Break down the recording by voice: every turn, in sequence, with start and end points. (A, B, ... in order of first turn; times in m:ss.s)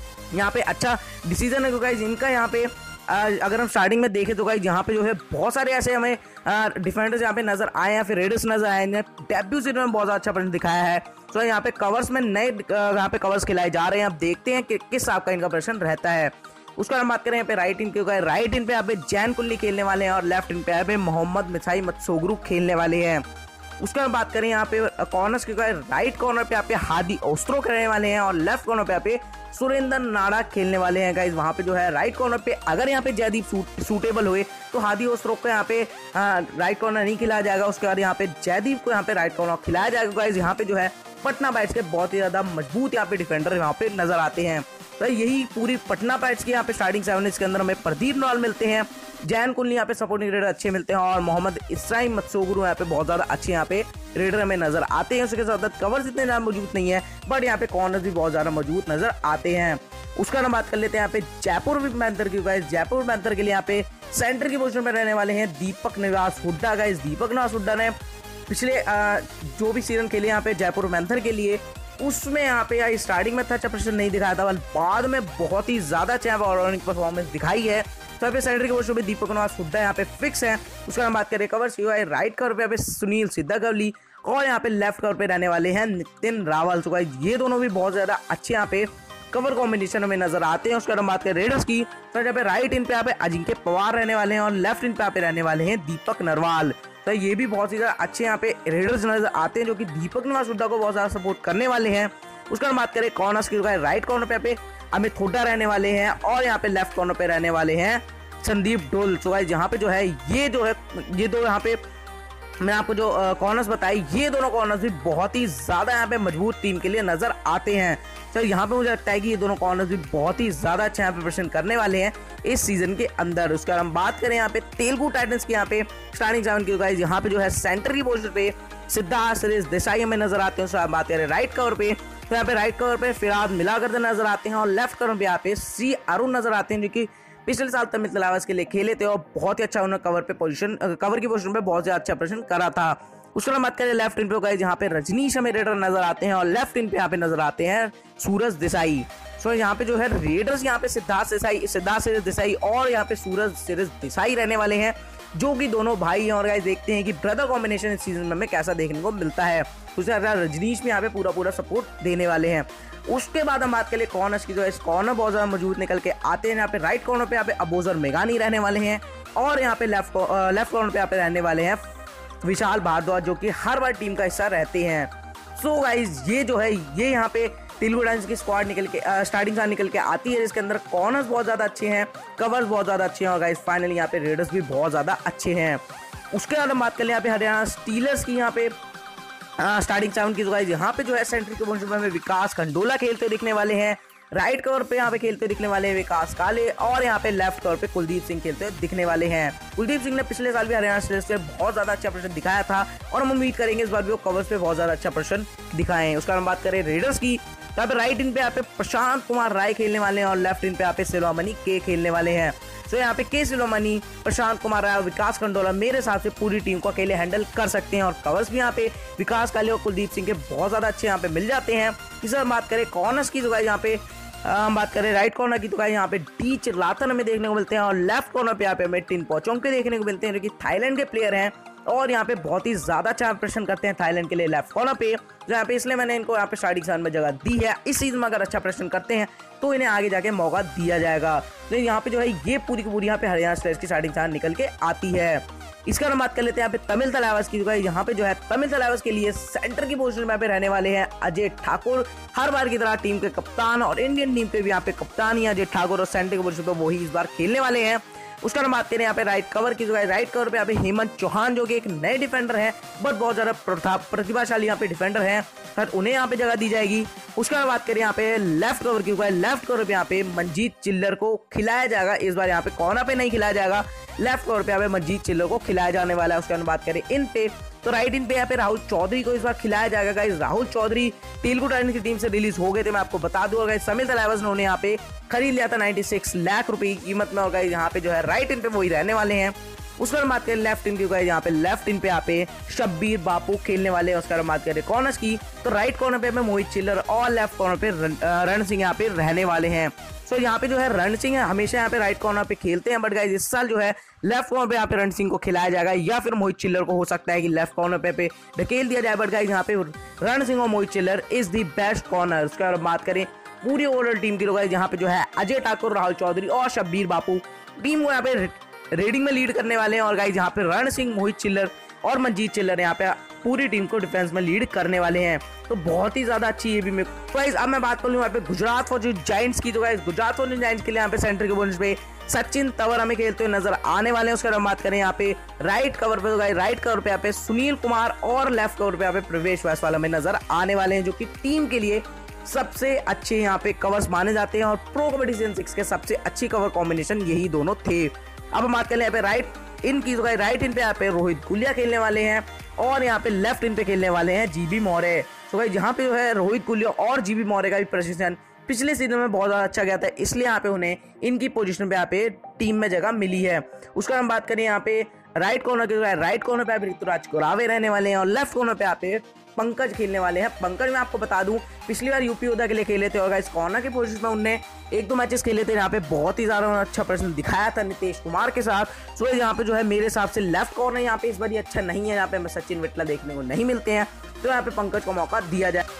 0:00.3-0:23.2 A
0:23.8-1:08.0 A
1:08.5-1:51.8 A
1:52.6-2:51.8 A
2:52.4-3:05.8 A
3:06.3-3:08.7 A
3:09.6-6:25.8 A